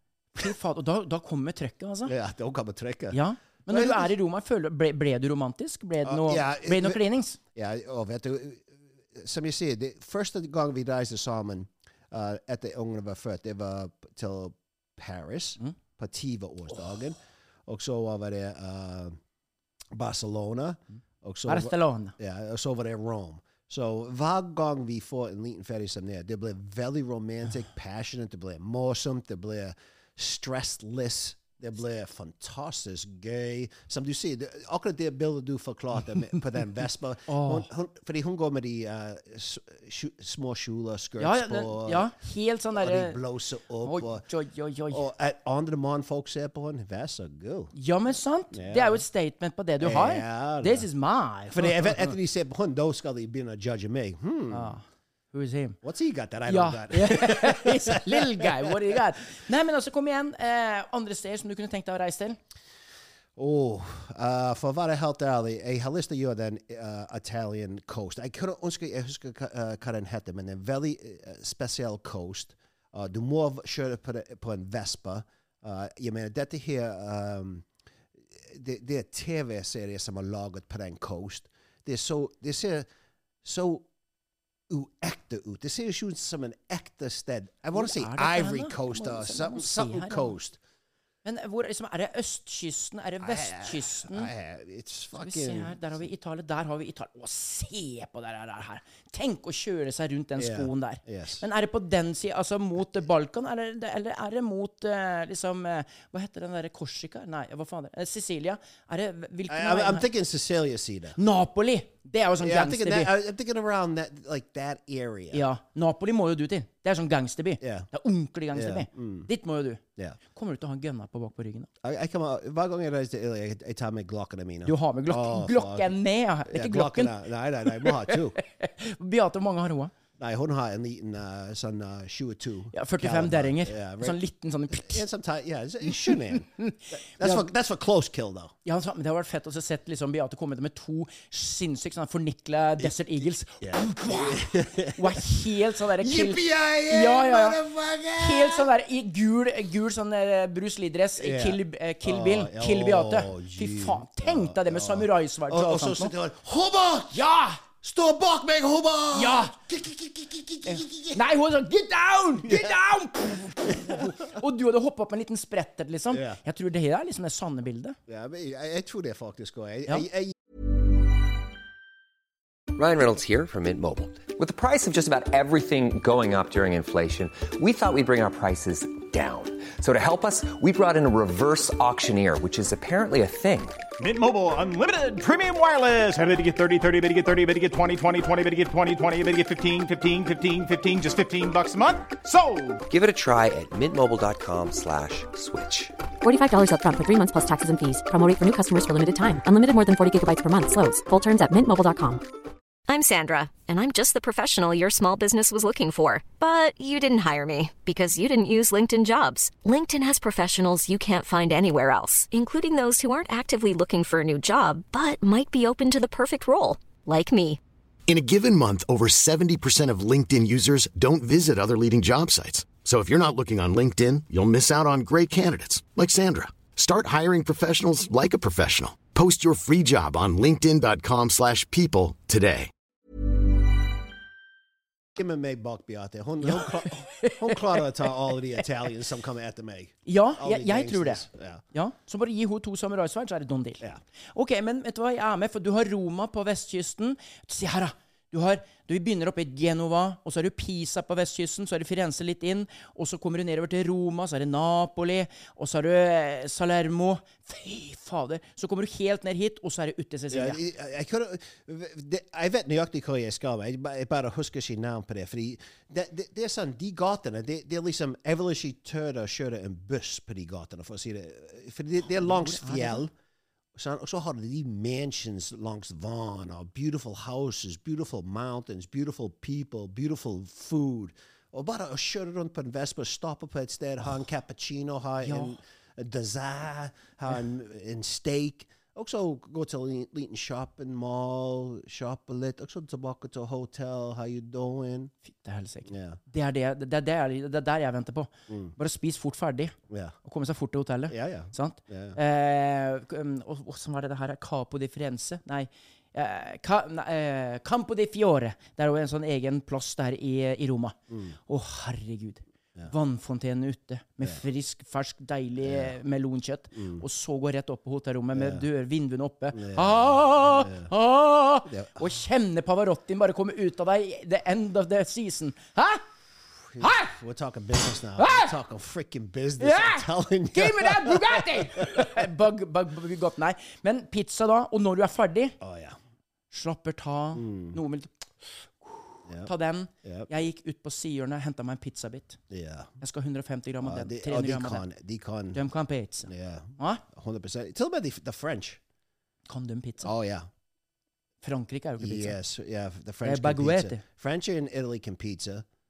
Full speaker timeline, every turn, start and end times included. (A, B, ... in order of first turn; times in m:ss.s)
0:00.3-0:02.1 A
0:02.0-0:04.1 B
0:03.1-0:07.4 A
0:06.0-0:19.2 B
0:19.9-0:42.1 B
0:21.5-0:22.1 A
0:37.3-0:37.7 A
0:41.2-0:43.2 A
0:42.8-0:44.2 B
0:43.8-0:45.0 A
0:44.9-0:47.7 B
0:47.7-0:52.2 A
0:48.5-0:49.0 B
0:49.8-0:50.9 B
0:51.5-0:54.8 B
0:54.5-0:55.8 A
0:55.8-0:59.0 B
0:56.5-1:02.4 A
1:03.4-1:17.6 B
1:18.3-1:22.9 B
1:23.4-1:23.8 B
1:24.7-1:30.6 B
1:27.7-1:30.4 A
1:31.2-1:34.3 A
1:33.2-1:36.0 B
1:35.2-1:50.1 A
1:40.4-1:41.4 B
1:49.5-1:51.2 B
1:51.2-1:53.1 A
1:52.4-1:55.4 B
1:55.3-2:01.7 A
1:57.6-1:57.9 B
1:58.5-1:59.3 B
2:01.8-2:05.9 B
2:04.6-2:09.9 A
2:06.4-2:08.4 B
2:10.2-2:16.5 B
2:12.7-2:15.0 A
2:15.9-2:17.4 A
2:17.2-2:18.5 B
2:18.6-2:27.6 A
2:23.6-2:25.2 B
2:26.0-2:28.7 B
2:28.2-2:36.1 A
2:31.2-2:37.2 B
2:37.1-2:37.6 A
2:37.8-2:41.2 B
2:39.1-2:39.5 A
2:40.6-2:48.0 A
2:42.4-2:42.8 B
2:43.7-2:44.1 B
2:46.1-2:46.4 B
2:48.1-2:50.3 B
2:52.7-3:03.8 C
3:04.0-3:12.8 D
3:12.9-3:15.9 C
3:16.2-3:22.2 E
3:22.9-3:37.6 F
3:38.1-3:52.7 G
3:55.1-4:01.6 B
3:56.4-3:58.6 A
4:00.0-4:20.6 A
4:20.3-4:33.1 B
4:32.1-4:33.1 A
4:33.7-4:55.1 B
4:45.2-4:45.6 A
4:55.2-5:26.0 A
4:55.8-4:56.2 B
4:58.5-4:58.7 B
4:59.9-5:00.2 B
5:01.1-5:02.2 B
5:11.1-5:11.4 B
5:15.6-5:15.9 B
5:16.7-5:17.0 B
5:18.3-5:18.6 B
5:19.5-5:20.9 B
5:21.6-5:22.1 B
5:26.7-5:32.2 B
5:26.8-5:27.1 A
5:28.2-5:28.5 A
5:29.6-5:35.6 A
5:35.6-5:36.0 B
5:36.5-5:38.1 A
5:37.3-5:37.8 B
5:38.8-5:42.4 A
5:39.2-5:39.5 B
5:40.0-5:40.3 B
5:42.5-5:42.9 B
5:43.0-5:44.8 A
5:43.8-5:45.6 B
5:45.5-5:47.0 A
5:46.2-5:48.8 B
5:49.5-5:50.1 A
5:50.0-5:50.5 B
5:51.4-5:52.4 A
5:52.0-5:55.6 B
5:53.2-5:54.0 A